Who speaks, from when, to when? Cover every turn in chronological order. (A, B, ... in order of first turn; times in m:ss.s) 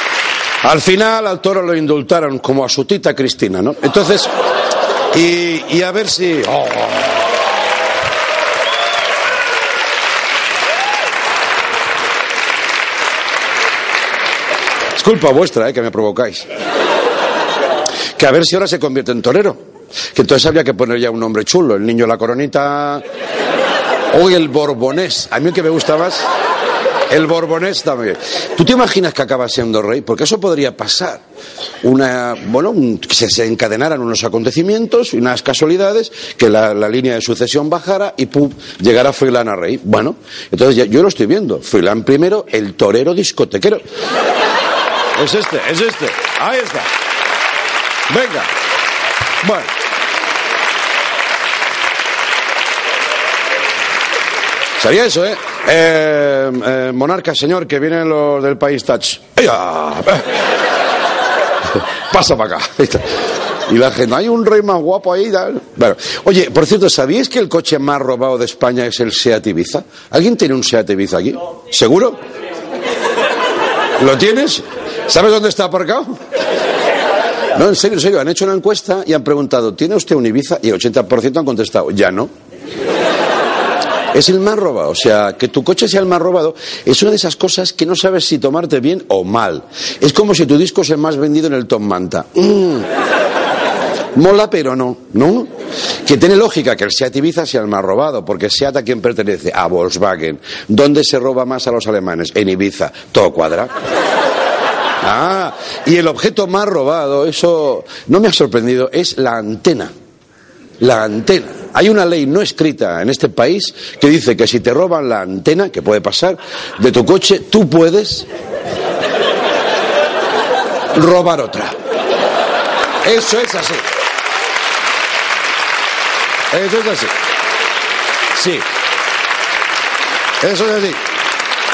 0:00.6-0:04.3 A
0:05.1-0:07.2 A
0:15.0-0:16.5 A
0:18.2-0:19.6 A
0:20.1-0:23.0 A
0:24.1-0:26.3 A
0:27.1-0:31.2 A
0:31.8-0:43.8 A
0:45.2-0:46.9 A
0:48.1-0:48.5 A
0:49.4-0:49.7 A
0:54.8-1:00.3 A
1:01.7-1:03.1 A
1:03.7-1:12.2 A
1:14.0-1:16.2 A
1:17.6-1:22.3 A
1:24.1-1:32.9 A
1:34.2-1:35.5 A
1:36.0-1:43.7 A
1:45.0-1:49.9 A
1:50.8-1:58.3 A
2:00.9-2:01.8 A
2:03.0-2:03.8 A
2:06.5-2:07.1 A
2:08.3-2:08.7 A
2:10.4-2:11.0 A